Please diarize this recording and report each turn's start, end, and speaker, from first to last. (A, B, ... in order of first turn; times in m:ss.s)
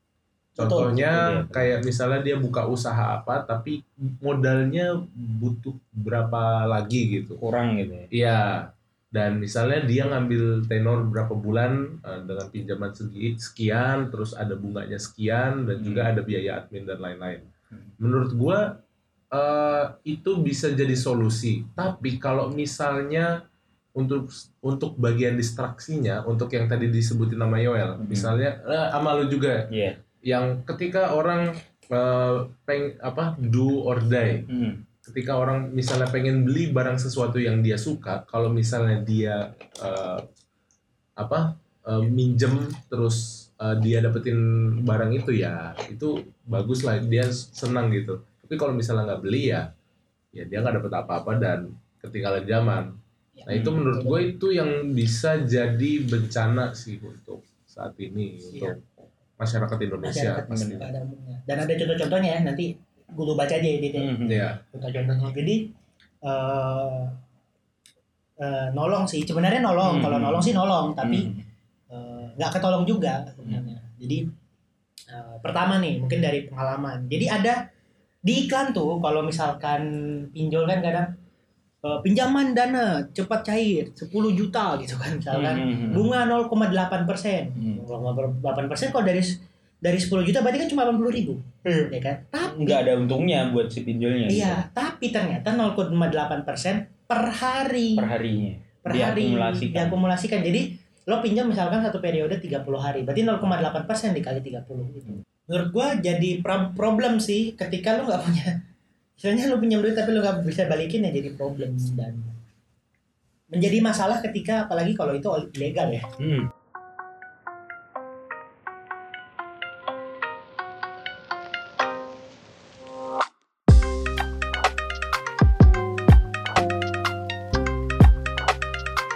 0:00.6-0:01.0 A
0:00.6-0:07.4 B
0:01.0-0:01.8 C
0:07.4-0:08.1 C
0:08.1-0:17.5 B
0:15.8-0:16.1 C
0:18.0-0:18.8 B
0:19.3-0:23.3 B
0:24.0-0:29.7 B
0:28.0-0:28.3 C
0:29.7-0:30.0 C
0:30.2-0:34.5 B
0:34.5-0:34.8 C
0:35.0-0:40.2 B
0:41.2-0:49.7 B
0:50.3-0:52.9 B
0:53.4-0:54.3 A
0:53.5-0:58.8 B
0:59.4-1:00.8 B
1:00.0-1:05.7 A
1:00.5-1:00.8 C
1:04.0-1:04.5 C
1:04.2-1:04.6 B
1:06.2-1:07.2 A
1:08.4-1:11.3 A
1:09.8-1:11.4 C
1:11.9-1:14.2 A
1:15.1-1:17.6 A
1:18.2-1:21.1 A
1:21.8-1:32.8 A
1:25.3-1:26.1 C
1:32.5-1:34.6 C
1:34.3-1:38.1 A
1:38.0-1:40.0 C
1:38.8-1:48.6 A
1:49.2-1:52.3 A
1:53.5-1:56.1 A
1:56.2-1:56.5 C